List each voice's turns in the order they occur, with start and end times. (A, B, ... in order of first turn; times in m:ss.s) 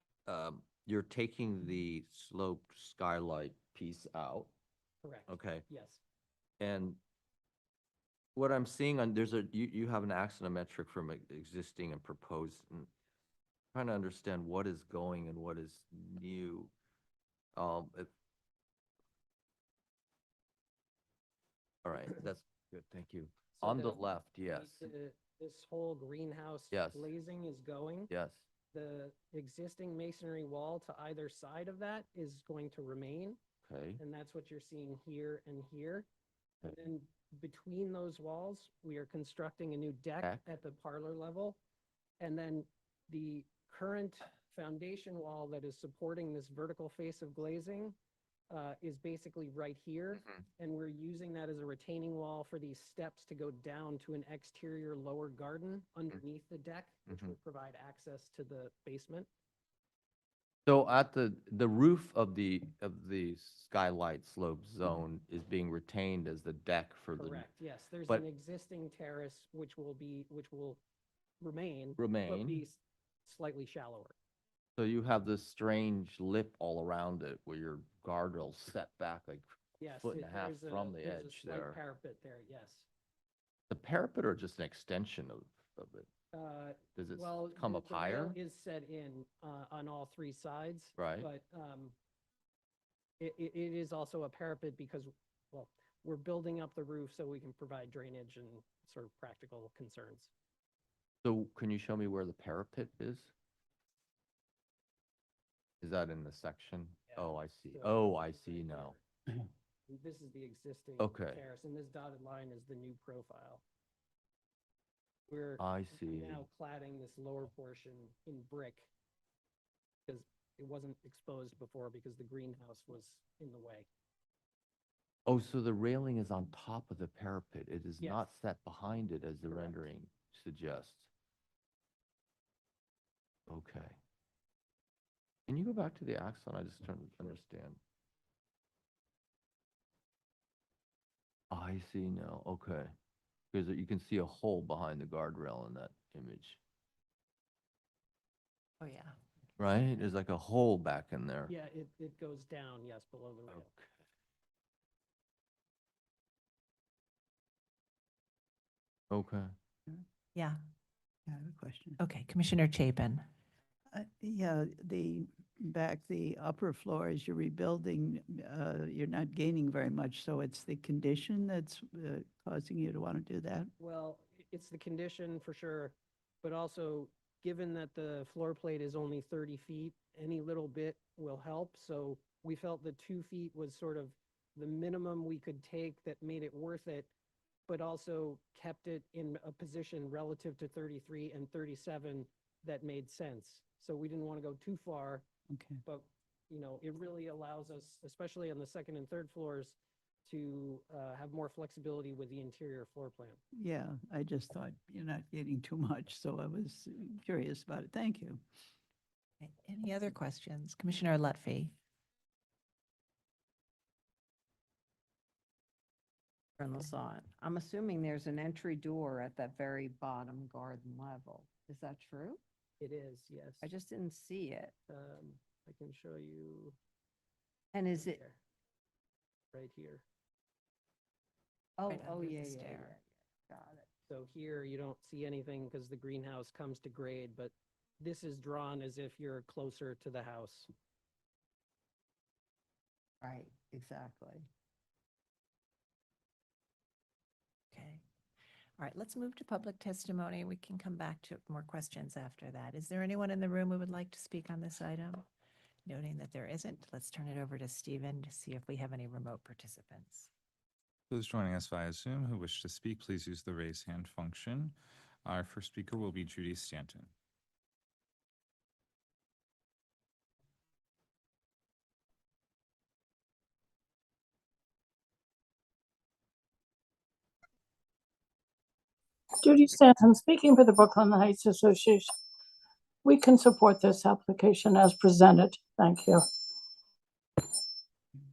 0:00.3-0:04.5 A
0:05.0-0:06.0 B
0:05.3-0:05.6 A
0:06.6-0:07.0 A
0:08.4-0:12.9 A
0:13.7-0:16.7 A
0:17.6-0:18.1 A
0:21.8-0:24.9 A
0:23.6-0:28.1 B
0:26.7-0:27.1 A
0:28.1-0:28.4 A
0:28.7-0:33.4 B
0:33.6-0:34.0 A
0:34.0-0:36.1 B
0:36.7-0:41.6 B
0:42.2-0:48.0 B
0:48.5-0:59.3 B
1:00.7-1:07.5 A
1:07.2-1:10.8 B
1:11.4-1:14.1 B
1:12.0-1:12.6 A
1:14.8-1:19.5 A
1:19.8-1:22.9 B
1:20.0-1:21.8 A
1:23.7-1:26.1 A
1:26.3-1:31.9 B
1:27.0-1:28.4 A
1:31.0-1:31.3 A
1:33.2-1:40.3 B
1:41.2-1:43.3 A
1:45.8-1:48.9 A
1:47.1-1:49.0 B
1:49.9-1:53.6 B
1:51.0-1:51.4 A
1:55.3-1:58.9 B
1:55.6-1:56.4 A
2:00.1-2:03.9 B
2:05.2-2:11.1 A
2:08.0-2:08.3 B
2:09.5-2:09.8 B
2:13.5-2:14.0 A
2:15.5-2:17.8 A
2:21.5-2:22.9 A
2:23.5-2:26.6 A
2:28.8-2:29.1 C
2:29.6-2:31.5 A
2:31.5-2:33.7 B
2:33.5-2:33.9 A
2:39.1-2:39.5 A
2:41.3-2:42.0 D
2:42.0-2:43.2 C
2:43.9-2:53.7 D
2:53.8-3:07.1 B
3:07.7-3:15.2 B
3:15.5-3:15.8 D
3:15.8-3:23.4 B
3:23.6-3:28.4 D
3:29.4-3:31.7 C
3:36.6-3:42.4 E
3:42.8-3:43.7 B
3:43.6-3:44.7 E
3:44.9-3:46.8 B
3:47.7-3:48.2 E
3:47.9-3:48.4 B
3:49.5-3:50.0 B
3:51.8-3:53.9 E
3:51.9-3:52.9 C
3:54.1-4:00.7 B
4:03.2-4:04.5 E
4:08.8-4:15.2 C
4:15.9-4:20.3 C
4:21.1-4:27.1 F
4:39.4-4:42.1 G
4:43.0-4:46.3 G